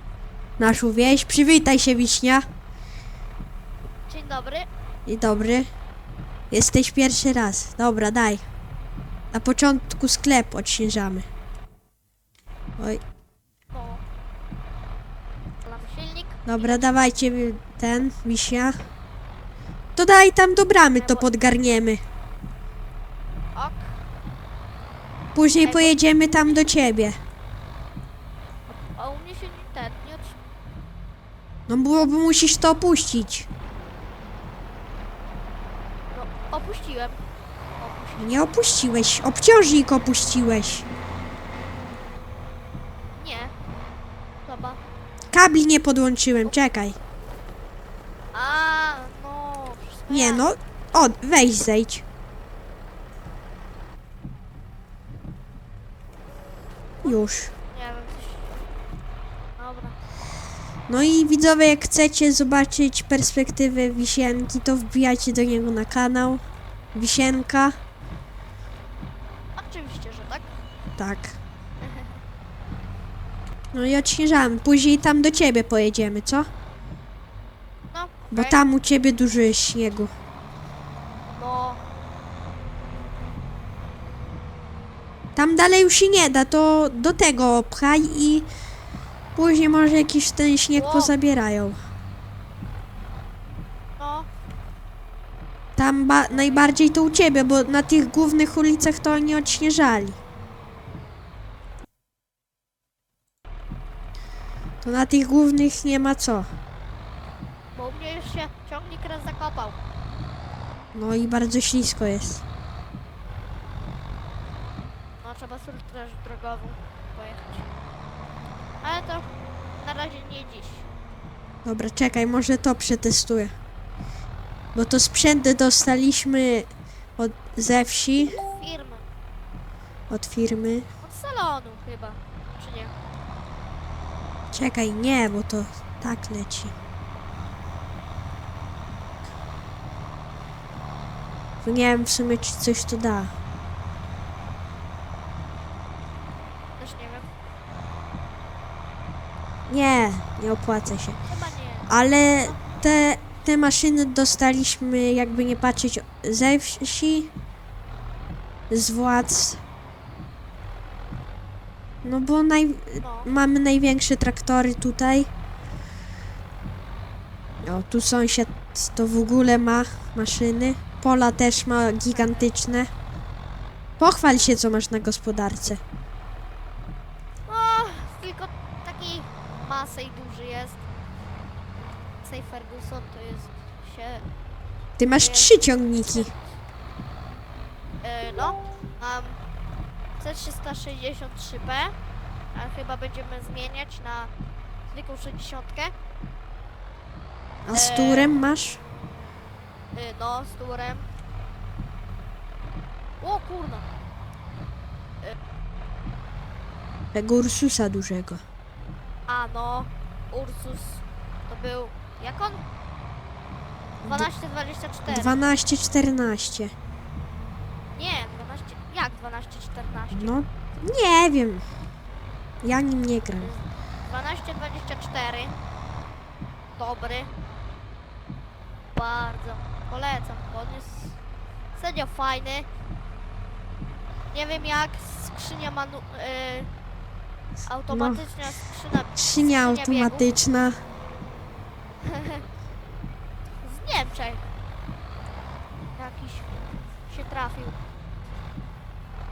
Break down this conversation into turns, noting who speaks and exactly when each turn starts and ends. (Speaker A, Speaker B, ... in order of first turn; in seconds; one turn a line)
Speaker A: 0.6-2.4
Speaker B: 4.1-4.7
Speaker A: 5.1-5.7
Speaker A: 6.5-8.4
Speaker A: 9.3-11.2
Speaker B: 13.7-14.0
Speaker B: 15.6-16.9
Speaker A: 16.4-18.7
Speaker A: 19.9-22.0
Speaker B: 21.0-21.3
Speaker B: 23.5-24.0
Speaker A: 25.3-27.2
Speaker B: 25.6-26.7
Speaker B: 28.7-30.4
Speaker A: 31.7-33.5
Speaker B: 36.1-37.2
Speaker B: 37.8-38.4
Speaker A: 38.2-40.9
Speaker B: 43.2-43.5
Speaker B: 44.5-44.8
Speaker A: 45.3-47.0
Speaker B: 48.3-50.5
Speaker A: 50.1-52.0
Speaker A: 57.0-57.5
Speaker B: 57.0-58.5
Speaker B: 59.6-60.0
Speaker A: 60.9-66.4
Speaker A: 66.9-67.8
Speaker B: 69.6-70.5
Speaker A: 71.0-71.4
Speaker A: 73.7-76.5
Speaker B: 77.9-78.6
Speaker A: 78.3-80.1
Speaker B: 81.3-81.8
Speaker A: 85.3-88.5
Speaker A: 89.3-91.8
Speaker B: 90.7-91.1
Speaker B: 94.0-94.3
Speaker A: 95.8-100.2
Speaker B: 96.3-96.8
Speaker A: 104.8-106.5
Speaker B: 107.7-109.8
Speaker A: 110.9-112.4
Speaker B: 115.2-117.7
Speaker B: 118.8-119.2
Speaker B: 119.8-120.9
Speaker A: 121.6-123.5
Speaker A: 124.7-126.7
Speaker A: 127.2-128.4
Speaker B: 128.4-129.0
Speaker A: 130.1-130.8
Speaker B: 131.0-132.9
Speaker A: 134.5-136.7
Speaker A: 141.6-143.3
Speaker B: 146.8-147.3
Speaker A: 149.7-151.2
Speaker B: 151.3-151.9
Speaker A: 151.9-157.3
Speaker A: 158.7-159.6
Speaker A: 162.0-165.3
Speaker B: 163.0-163.3
Speaker A: 167.6-172.9
Speaker B: 172.1-172.5
Speaker A: 174.0-175.8
Speaker B: 177.5-180.8
Speaker B: 182.2-184.3
Speaker A: 185.0-186.3
Speaker B: 185.1-186.6
Speaker B: 188.0-189.4
Speaker B: 190.2-191.9
Speaker B: 192.5-194.3
Speaker B: 194.9-195.9
Speaker A: 197.7-198.8
Speaker B: 197.7-198.3
Speaker B: 199.9-201.1
Speaker B: 203.2-203.8
Speaker A: 207.1-208.4
Speaker B: 209.3-212.6
Speaker A: 214.0-214.3
Speaker B: 214.0-215.4
Speaker A: 215.1-216.7
Speaker B: 217.9-220.4
Speaker A: 220.1-221.6
Speaker A: 222.6-223.5
Speaker B: 223.4-225.5
Speaker B: 226.8-227.3
Speaker B: 228.9-231.2
Speaker B: 231.7-232.7
Speaker B: 234.3-236.7
Speaker B: 237.7-240.3
Speaker A: 237.9-238.2
Speaker A: 239.2-240.8
Speaker B: 242.0-242.4
Speaker B: 243.6-244.4
Speaker B: 245.9-246.5
Speaker B: 247.1-247.8